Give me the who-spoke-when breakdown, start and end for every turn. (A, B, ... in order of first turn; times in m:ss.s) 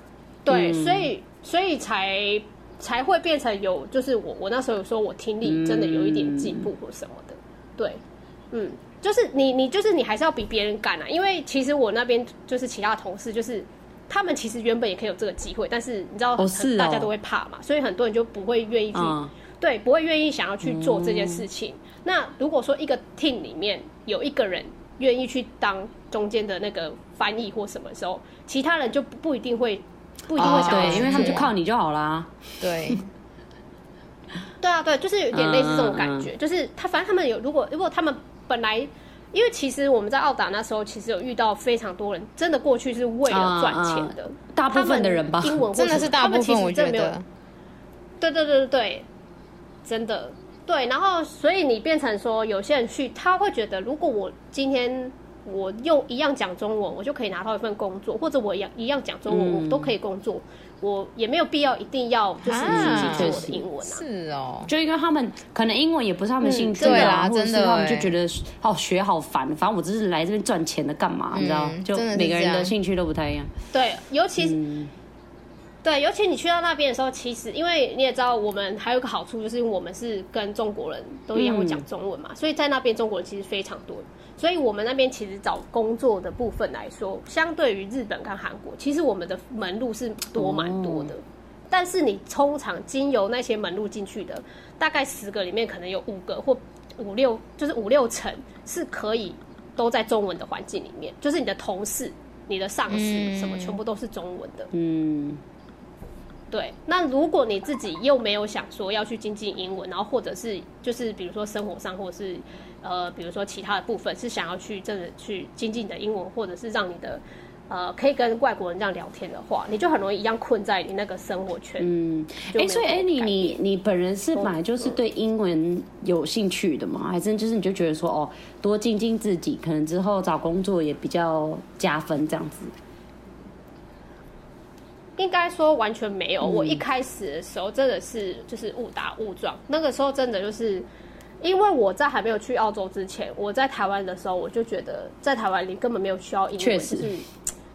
0:00.4-0:31.5 A
0:00.5-0:01.1 B
0:05.4-0:06.7 B
0:16.4-0:17.1 B
0:18.9-0:19.3 B
0:20.6-0:21.4 B
0:30.4-0:31.5 C
0:30.4-0:32.4 B
0:32.6-0:33.1 C
0:34.6-0:47.1 A
0:35.3-0:36.3 B
0:43.3-0:45.7 B
0:45.7-0:47.2 C
0:48.2-0:49.1 A
0:49.8-1:04.0 A
0:59.3-0:59.9 B
1:02.4-1:04.7 C
1:02.7-1:03.6 B
1:04.7-1:13.5 B
1:06.4-1:07.2 A
1:06.8-1:08.1 C
1:11.3-1:12.7 C
1:13.7-1:14.6 A
1:14.4-1:14.9 B
1:15.8-1:44.7 A
1:21.3-1:21.8 B
1:30.4-1:31.1 B
1:42.9-1:43.8 C
1:44.7-1:45.4 B
1:46.5-2:01.9 A
2:01.8-2:12.7 B
2:02.5-2:03.6 A
2:04.3-2:05.0 A
2:15.2-2:20.9 A
2:16.4-2:16.8 B
2:21.4-2:27.3 A
2:26.6-2:27.2 B